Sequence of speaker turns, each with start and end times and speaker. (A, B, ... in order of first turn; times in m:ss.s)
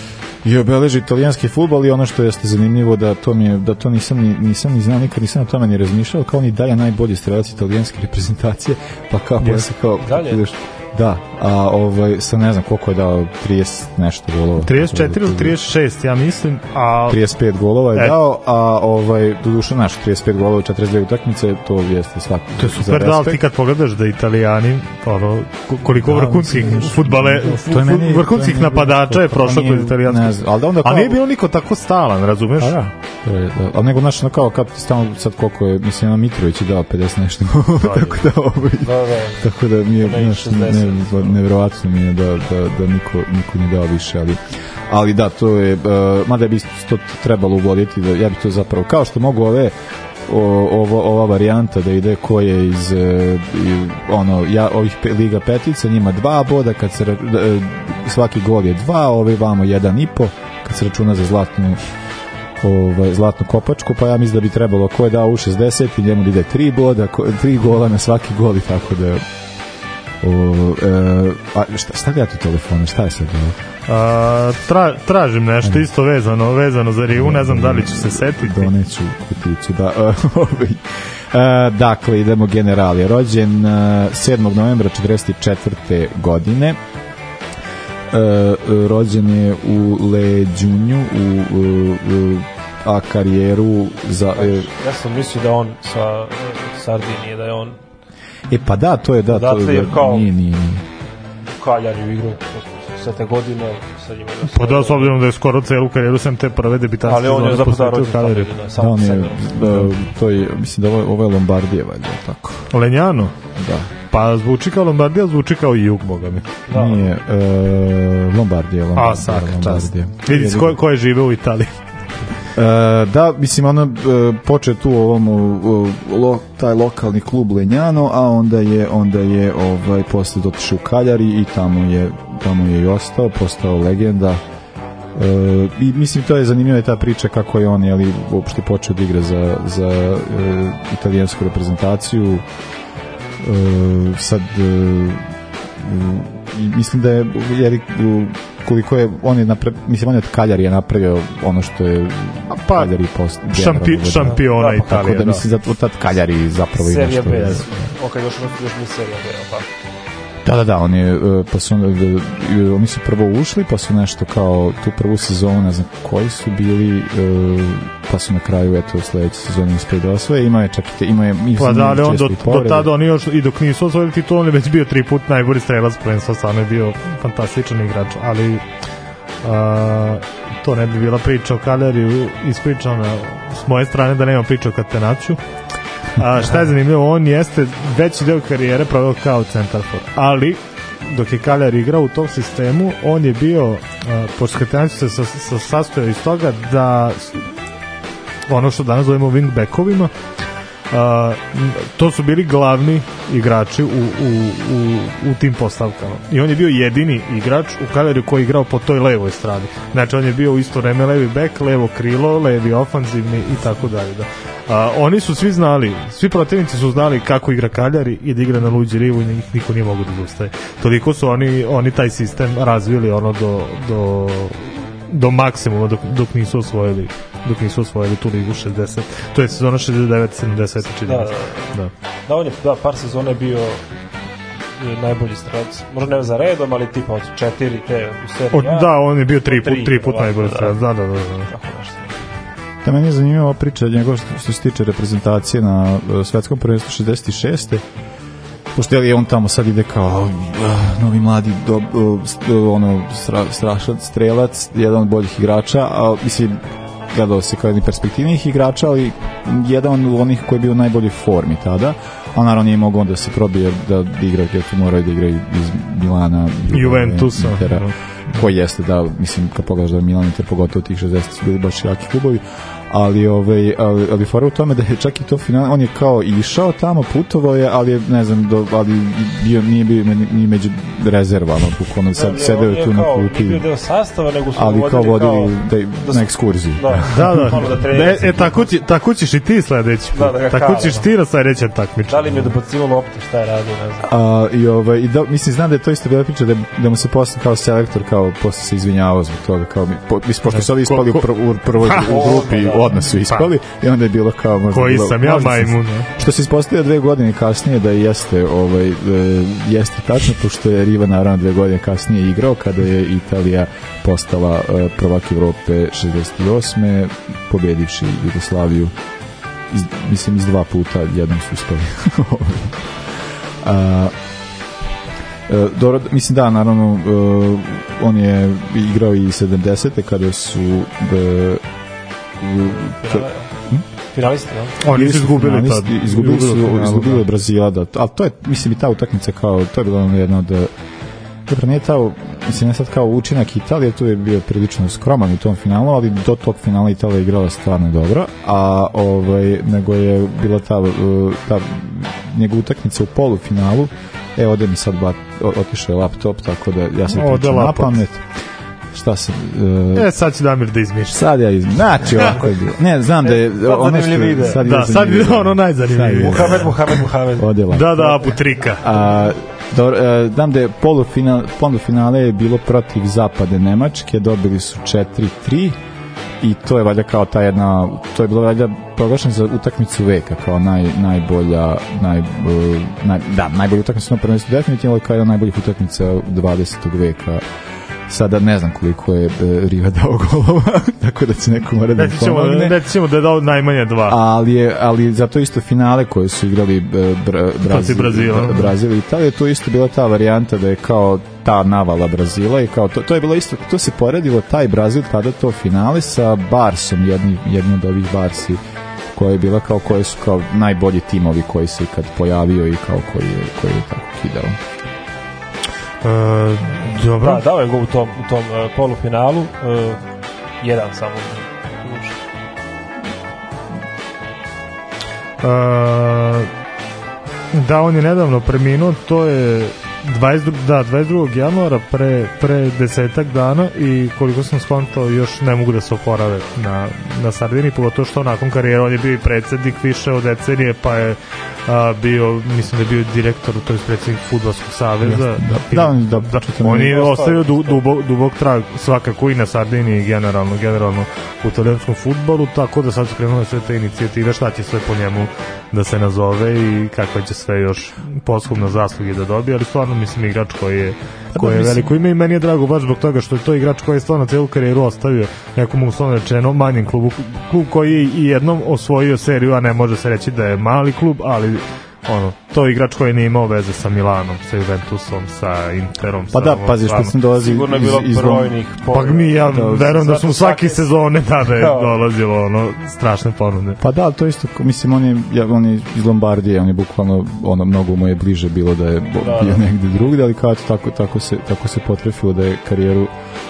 0:00.4-0:15.6 A
0:09.4-0:09.7 B
0:10.0-0:10.4 C
0:14.6-0:17.2 B
0:17.1-0:23.4 A
0:22.6-0:32.8 B
0:25.9-0:31.2 A
0:32.6-0:49.8 A
0:37.8-0:38.2 B
0:38.8-0:39.5 C
0:40.0-0:41.4 C
0:50.3-1:01.8 A
1:02.6-1:09.2 A
1:10.2-1:13.6 A
1:13.9-1:18.7 B
1:17.1-1:26.8 A
1:28.1-1:34.7 A
1:34.3-1:37.8 C
1:38.5-1:40.9 A
1:39.3-1:40.3 C
1:41.4-1:45.1 C
1:44.5-1:48.5 B
1:47.0-1:49.6 C
1:48.8-1:52.7 A
1:52.7-1:53.3 B
1:53.6-1:53.9 A
1:54.1-1:56.6 B
1:56.7-1:57.0 C
1:56.7-2:00.8 A
1:59.0-2:01.8 B
2:02.6-2:14.4 A
2:15.2-2:22.4 A
2:23.4-2:37.7 A
2:32.5-2:32.9 B
2:33.5-2:35.4 B
2:34.3-2:34.9 C
2:36.8-2:39.7 C
2:40.4-2:52.9 A
2:51.6-2:58.6 B
2:59.4-3:05.4 B
3:06.2-3:17.5 B
3:18.5-3:20.1 B
3:20.9-3:51.9 B
3:51.0-3:53.8 C
3:54.8-4:00.8 C
3:58.5-4:01.5 B
4:01.5-4:02.2 C
4:02.8-4:07.8 A
4:08.7-4:43.6 A
4:26.7-4:28.4 B
4:42.2-4:48.7 C
4:44.5-4:47.6 A
4:47.1-4:52.5 B
4:50.1-4:51.1 C
4:52.1-4:54.1 C
4:54.0-5:18.9 A
5:00.5-5:01.3 B
5:01.8-5:02.4 B
5:02.0-5:02.9 C
5:03.0-5:03.5 B
5:04.7-5:06.1 B
5:19.7-5:22.9 A
5:23.6-5:24.1 A
5:25.5-5:31.6 A
5:32.4-5:33.9 A
5:32.6-5:33.5 C
5:34.1-5:34.8 C
5:34.8-5:37.2 B
5:34.9-5:40.7 A
5:41.5-5:58.2 A
5:57.1-5:58.0 B
5:58.9-6:00.1 A
6:00.0-6:01.2 B
6:01.1-6:06.8 A
6:03.2-6:04.6 C
6:04.6-6:06.8 B
6:06.2-6:08.2 C
6:07.4-6:08.1 A
6:07.7-6:08.8 B
6:08.8-6:15.8 A
6:16.4-6:27.4 A
6:28.1-6:32.8 A
6:32.0-6:34.2 B
6:34.1-6:48.6 A
6:37.6-6:38.8 B
6:49.1-6:54.6 A
6:56.0-6:57.4 B
6:57.2-7:00.0 C
7:00.6-7:02.2 C
7:05.4-7:06.5 B
7:07.5-7:57.2 B
7:25.0-7:27.0 A
7:26.7-7:27.8 C
7:41.3-7:42.0 A
7:56.3-7:58.6 A
7:57.4-8:00.9 C
7:58.9-8:03.8 B
7:59.4-8:00.1 A
8:01.5-8:01.9 C
8:03.8-8:13.1 A
8:09.2-8:09.6 C